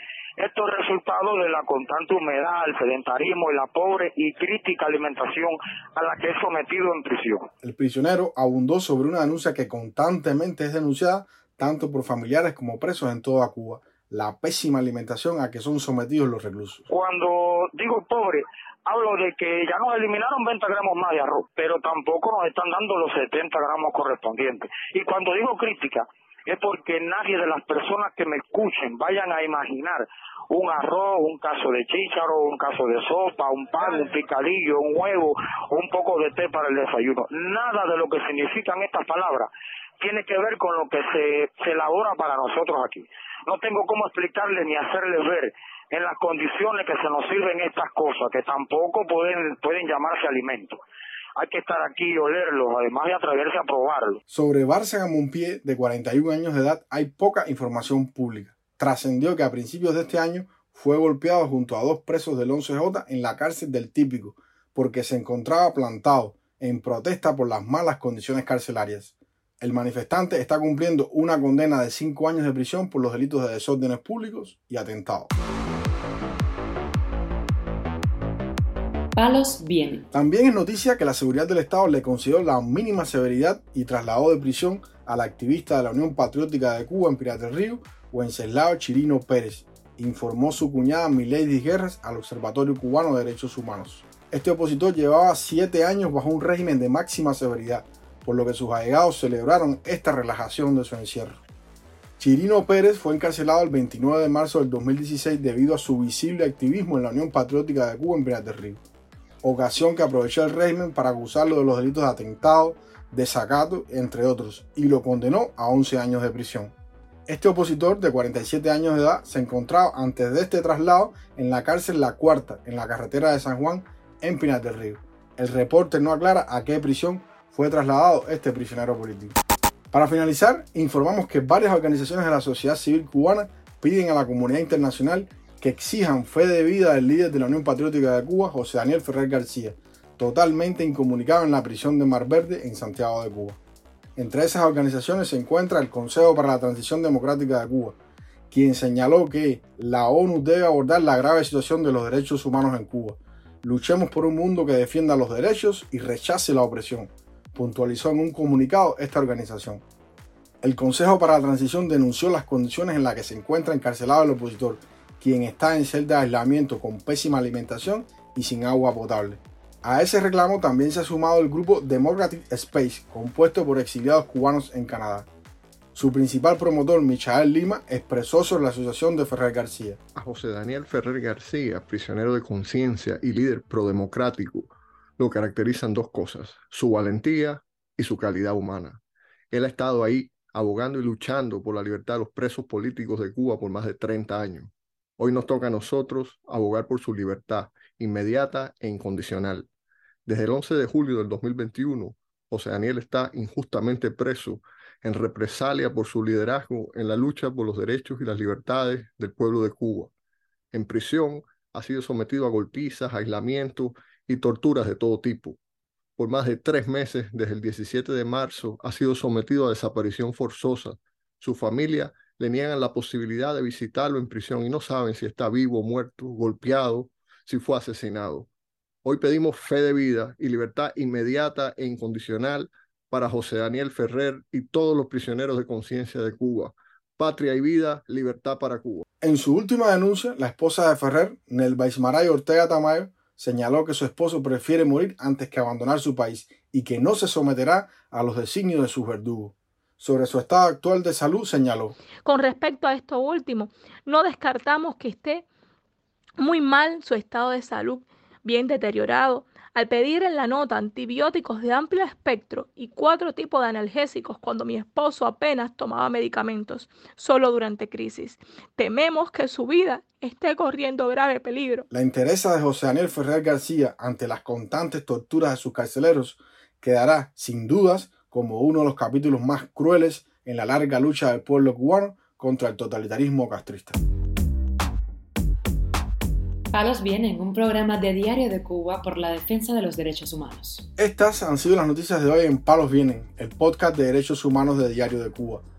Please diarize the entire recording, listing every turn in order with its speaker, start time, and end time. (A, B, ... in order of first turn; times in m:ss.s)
0:00.4-0:07.4 A
0:07.6-0:16.8 B
0:16.9-0:50.8 A
0:51.4-0:54.2 A
0:54.3-1:15.3 B
1:19.2-1:20.1 C
1:20.1-1:41.4 B
1:42.2-1:48.8 B
1:49.4-1:56.7 B
1:57.3-2:09.4 B
2:09.9-2:23.6 B
2:24.2-2:28.0 B
2:28.5-2:39.8 B
2:40.6-2:55.3 B
2:55.9-3:00.0 B
3:00.1-3:19.7 D
3:20.2-3:30.1 D
3:30.7-3:35.6 D
3:36.2-3:48.5 D
3:49.0-3:59.0 D
3:59.2-4:12.0 B
4:12.2-4:15.4 E
4:16.4-4:31.8 E
4:31.9-4:44.0 B
4:46.7-4:50.9 C
4:51.0-4:55.6 B